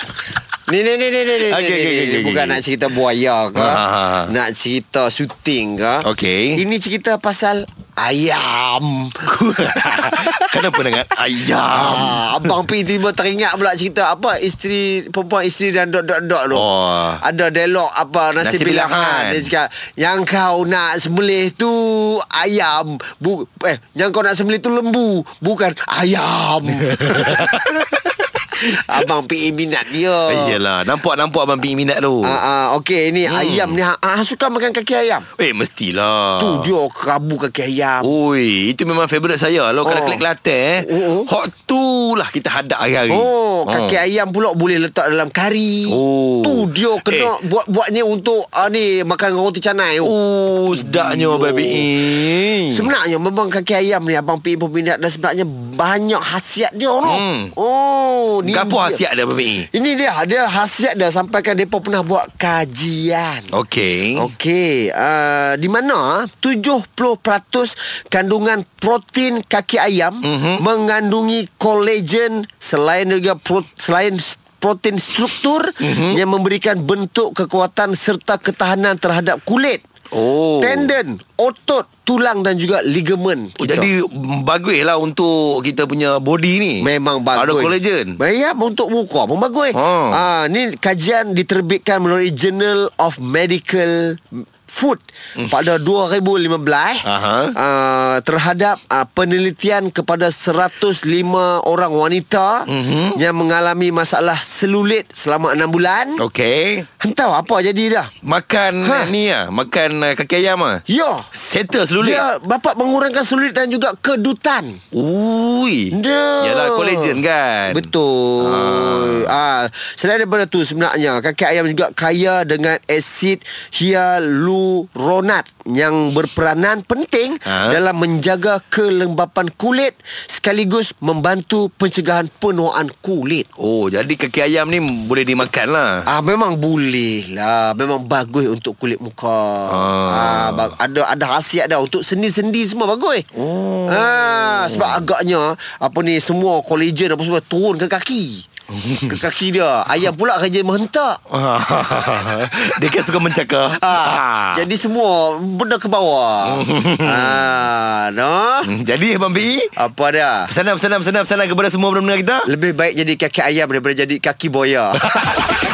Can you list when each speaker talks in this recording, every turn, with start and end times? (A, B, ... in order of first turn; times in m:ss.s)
0:00.7-0:10.8 A
0:01.4-0:02.6 B
0:03.6-0:04.3 B
0:06.0-0:06.6 B
0:09.2-0:12.6 B
0:11.7-0:27.6 A
0:16.5-0:17.2 B
0:18.4-0:19.5 B
0:26.9-0:28.7 B
0:28.6-0:30.6 A
0:30.3-0:32.4 B
0:32.2-0:35.2 A
0:33.2-0:33.8 B
0:35.4-0:36.7 B
0:36.4-0:38.1 A
0:38.0-0:44.0 B
0:39.8-0:40.2 A
0:40.8-0:41.3 A
0:43.1-0:50.1 A
0:45.9-0:47.3 B
0:50.0-0:52.9 B
0:50.7-0:59.0 A
0:57.0-0:57.5 B
0:58.4-0:59.7 B
0:59.7-1:03.5 A
1:03.5-1:04.3 B
1:04.1-1:19.8 A
1:10.2-1:10.6 B
1:15.8-1:16.2 B
1:20.1-1:20.9 B
1:20.6-1:23.9 A
1:23.6-1:28.2 B
1:26.8-1:37.0 A
1:29.7-1:30.2 B
1:37.0-1:37.5 B
1:37.5-1:46.2 A
1:42.7-1:43.2 B
1:46.2-1:46.9 B
1:47.0-1:48.1 A
1:48.2-1:52.2 B
1:48.8-1:49.1 A
1:50.9-1:51.3 A
1:52.0-1:54.8 A
1:54.9-1:59.3 B
1:55.9-2:13.5 A
2:07.4-2:07.8 B
2:13.6-2:16.1 B
2:16.1-2:23.3 A
2:19.7-2:20.8 B
2:23.4-2:25.0 B
2:23.8-2:28.4 A
2:28.7-2:29.2 B
2:29.1-2:31.2 A
2:31.3-2:34.6 B
2:33.9-2:38.7 A
2:36.4-2:37.4 B
2:38.6-2:39.7 B
2:39.8-2:40.5 A
2:40.5-2:42.5 B
2:42.4-2:45.0 A
2:45.1-2:45.4 B